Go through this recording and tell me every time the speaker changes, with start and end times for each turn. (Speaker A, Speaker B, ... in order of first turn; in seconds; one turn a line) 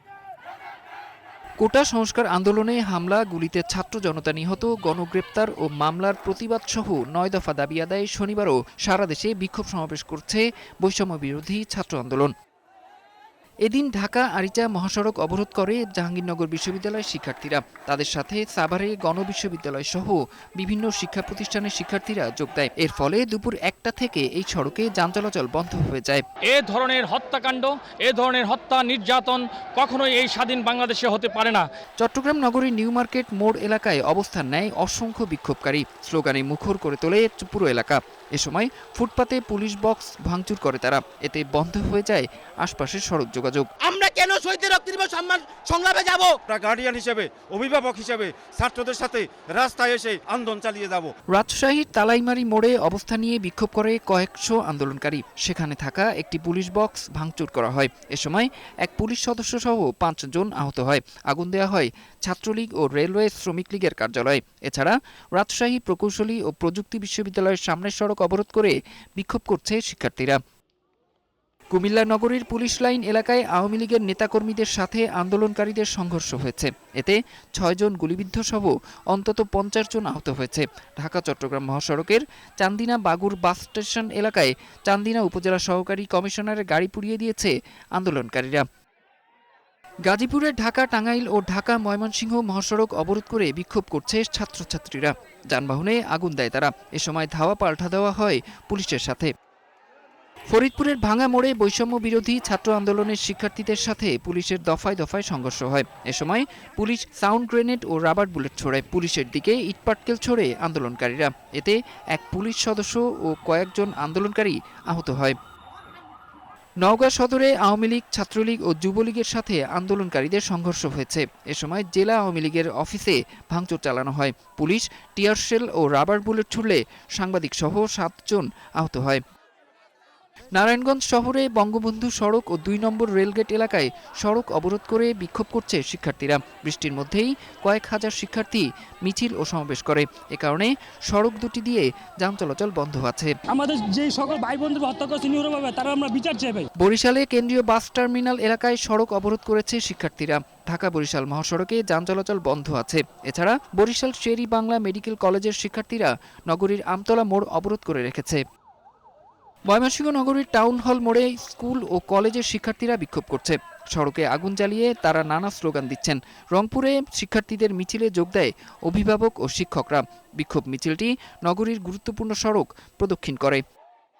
Speaker A: 1.6-12.3
Speaker A: 13.7-26.2
Speaker B: 26.5-31.6
Speaker A: 32.0-43.7
Speaker C: 43.8-46.4
Speaker D: 46.5-51.1
Speaker A: 51.3-70.4
Speaker A: 71.7-88.6
Speaker A: 90.0-99.3
Speaker A: 100.5-115.3
Speaker A: 116.8-129.2
Speaker A: 130.5-143.3
Speaker E: 143.5-146.7
Speaker A: 146.8-158.4
Speaker A: 159.7-173.6